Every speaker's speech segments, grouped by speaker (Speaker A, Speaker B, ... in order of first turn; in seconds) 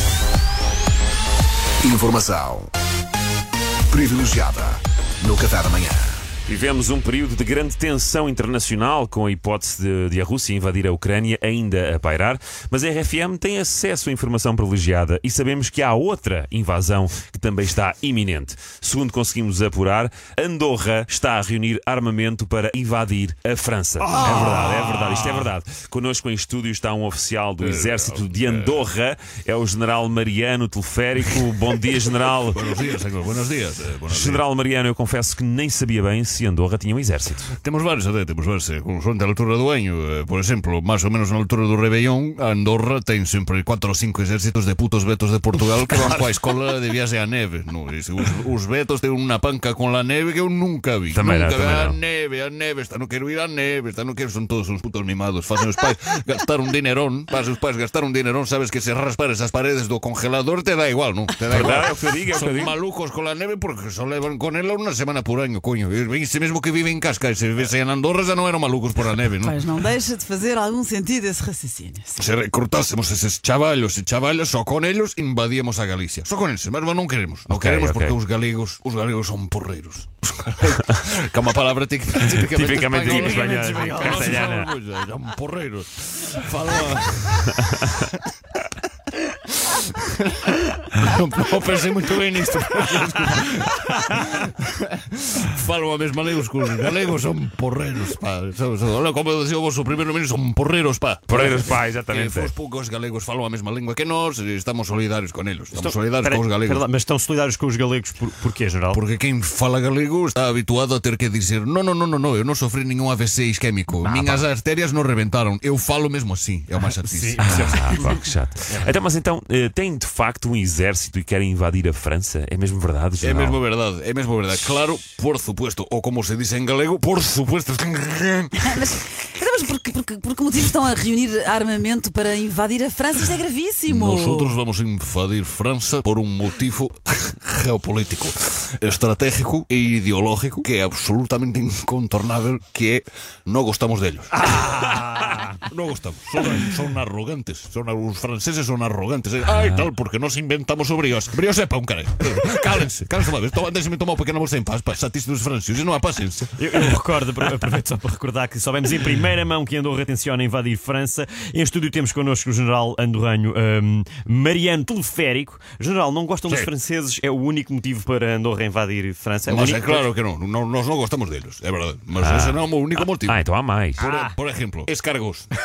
Speaker A: 1.8-2.7, 3.9-6.2
Speaker B: 6.5-32.7, 34.1-37.5, 51.1-52.0, 61.5-62.8, 77.5-78.2, 82.3-84.7, 87.6-87.9, 101.3-102.5, 114.0-114.4, 117.4-123.6, 149.4-149.9, 172.2-174.1
Speaker C: 24.1-25.3, 83.0-84.5, 105.7-109.0, 116.8-118.2, 144.4-145.5, 156.6-170.2, 174.0-174.3
Speaker D: 27.6-28.8, 32.5-34.4, 37.6-69.5, 72.2-88.1, 89.7-101.5, 102.1-106.8, 108.9-118.0, 123.2-128.9, 133.9-145.0, 145.6-156.9, 169.4-173.4, 174.0-175.5
Speaker E: 69.4-72.2, 128.6-134.6